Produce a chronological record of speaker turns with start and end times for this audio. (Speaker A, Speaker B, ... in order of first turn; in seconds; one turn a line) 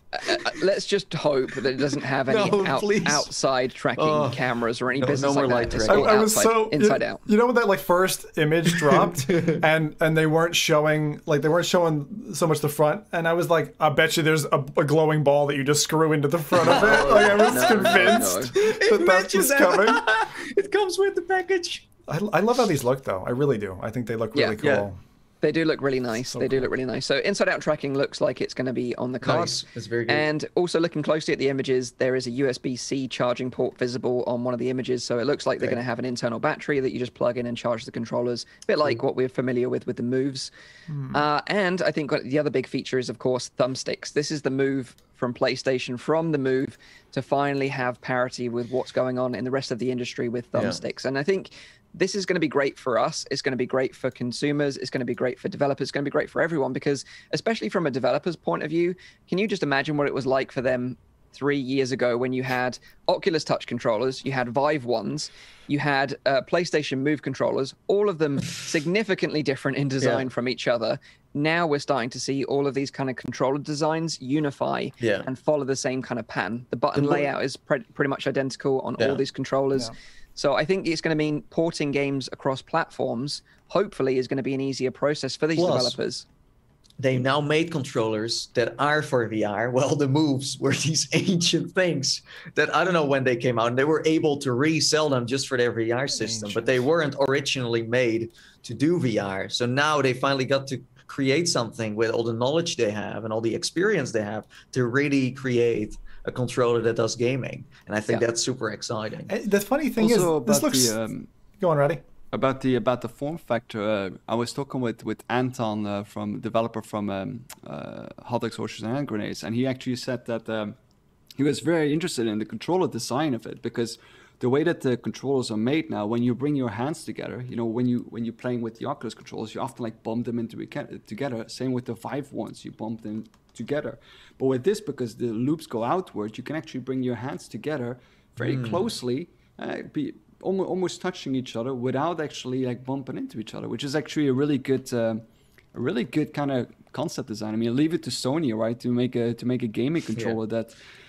Speaker A: 0.1-7.2
Speaker B: 2.3-3.3
Speaker B: 4.0-4.4
Speaker B: 5.0-6.2
Speaker C: 5.9-20.0
Speaker B: 8.9-9.6
Speaker B: 16.6-21.9
Speaker A: 17.0-18.5
Speaker C: 22.1-25.0
Speaker B: 24.6-24.9
Speaker A: 25.4-40.5
Speaker C: 26.3-26.7
Speaker B: 29.2-30.3
Speaker C: 40.9-41.2
Speaker A: 41.1-86.3
Speaker B: 50.5-50.8
Speaker B: 70.0-70.3
Speaker B: 75.0-75.3
Speaker B: 77.0-77.3
Speaker B: 85.6-86.0
Speaker B: 87.0-109.3
Speaker C: 96.1-96.8
Speaker C: 109.3-111.0
Speaker D: 110.0-111.3
Speaker C: 111.6-112.0
Speaker D: 112.3-120.8
Speaker D: 121.4-145.2
Speaker B: 138.4-138.9
Speaker D: 145.7-150.8